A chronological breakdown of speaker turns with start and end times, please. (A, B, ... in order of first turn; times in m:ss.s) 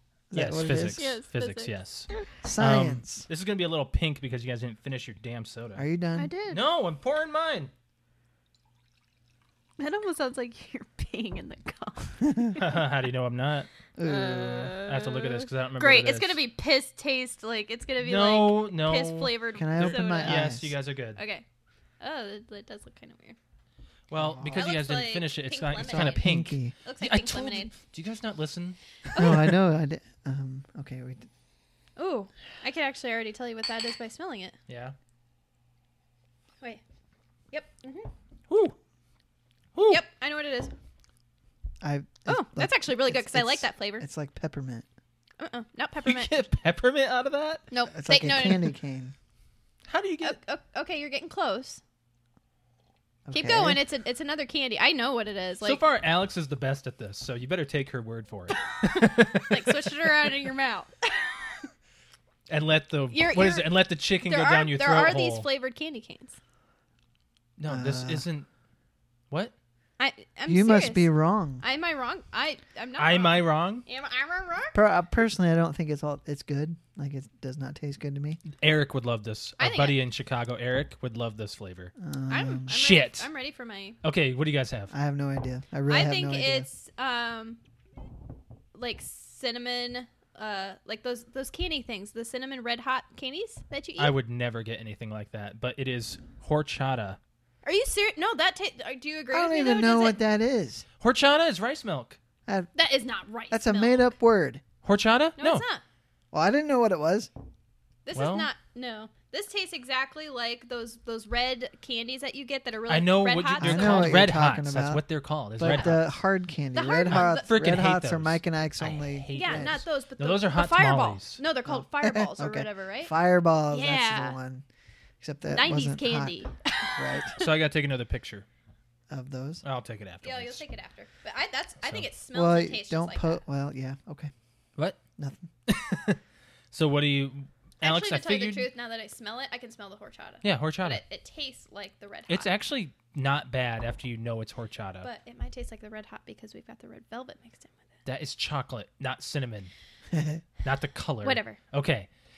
0:00.3-0:01.0 A
0:00.3-0:05.9 B
0:00.9-0:02.3 C
0:02.4-0:03.3 A
0:05.8-0:06.3 A
0:06.2-0:06.6 C
0:06.5-0:07.7 B
0:09.8-0:12.6 C
0:12.6-0:13.7 B
0:14.0-0:14.6 A
0:14.0-0:20.4 C
0:14.3-0:16.4 B
0:18.0-0:21.2 B
0:19.5-0:20.8 A
0:21.2-0:21.4 C
0:22.0-0:23.4 C
0:24.1-0:28.8 B
0:24.2-0:24.7 A
0:24.5-0:26.2 C
0:25.9-0:26.7 A
0:26.8-0:27.7 C
0:29.1-0:29.5 C
0:29.1-0:31.3 A
0:32.0-0:34.6 C
0:34.7-0:35.0 B
0:37.5-0:38.1 C
0:38.5-0:38.7 B
0:39.7-0:40.0 B
0:39.9-0:40.7 C
0:41.8-0:44.9 A
0:42.3-0:44.1 C
0:45.4-0:46.3 C
0:46.0-0:47.7 B
0:47.7-0:48.7 C
0:47.9-0:49.1 A
0:49.9-0:50.4 B
0:50.2-0:51.8 C
0:53.3-0:53.8 A
0:53.3-0:55.8 C
0:55.6-1:00.3 B
0:58.7-1:01.6 C
1:02.5-1:05.5 B
1:03.1-1:03.7 C
1:04.2-1:06.4 C
1:07.6-1:08.5 B
1:07.7-1:08.2 A
1:10.0-1:11.1 C
1:10.5-1:11.6 A
1:11.6-1:14.8 C
1:13.0-1:13.8 B
1:14.7-1:18.4 A
1:18.4-1:21.9 B
1:19.6-1:20.0 C
1:22.0-1:22.8 A
1:22.3-1:24.0 C
1:22.7-1:23.3 B
1:24.0-1:24.9 B
1:24.9-1:26.7 A
1:25.9-1:27.6 C
1:28.7-1:34.1 C
1:34.0-1:37.2 B
1:37.6-1:40.2 C
1:39.3-1:40.9 A
1:41.0-1:42.2 B
1:42.4-1:42.7 A
1:42.7-1:44.1 C
1:43.5-1:44.6 A
1:44.8-1:45.6 B
1:45.4-1:45.8 C
1:46.3-1:47.3 A
1:48.1-1:54.2 C
1:48.1-1:48.5 B
1:52.9-1:56.1 B
1:53.6-1:55.0 A
1:55.6-1:59.8 A
1:56.7-1:57.5 C
1:57.1-2:01.4 B
1:59.3-2:03.1 C
2:01.6-2:04.6 A
2:03.7-2:04.4 C
2:05.2-2:07.4 A
2:05.5-2:07.5 C
2:07.4-2:08.4 B
2:09.1-2:09.6 A
2:09.6-2:10.6 B
2:10.2-2:13.4 C
2:12.3-2:14.3 A
2:15.2-2:15.5 A
2:15.7-2:16.2 B
2:16.7-2:18.7 B
2:17.8-2:22.5 C
2:20.4-2:21.0 B
2:22.3-2:25.1 B
2:25.0-2:27.7 C
2:28.0-2:29.7 B
2:30.1-2:30.4 A
2:30.6-2:32.1 B
2:31.2-2:31.6 C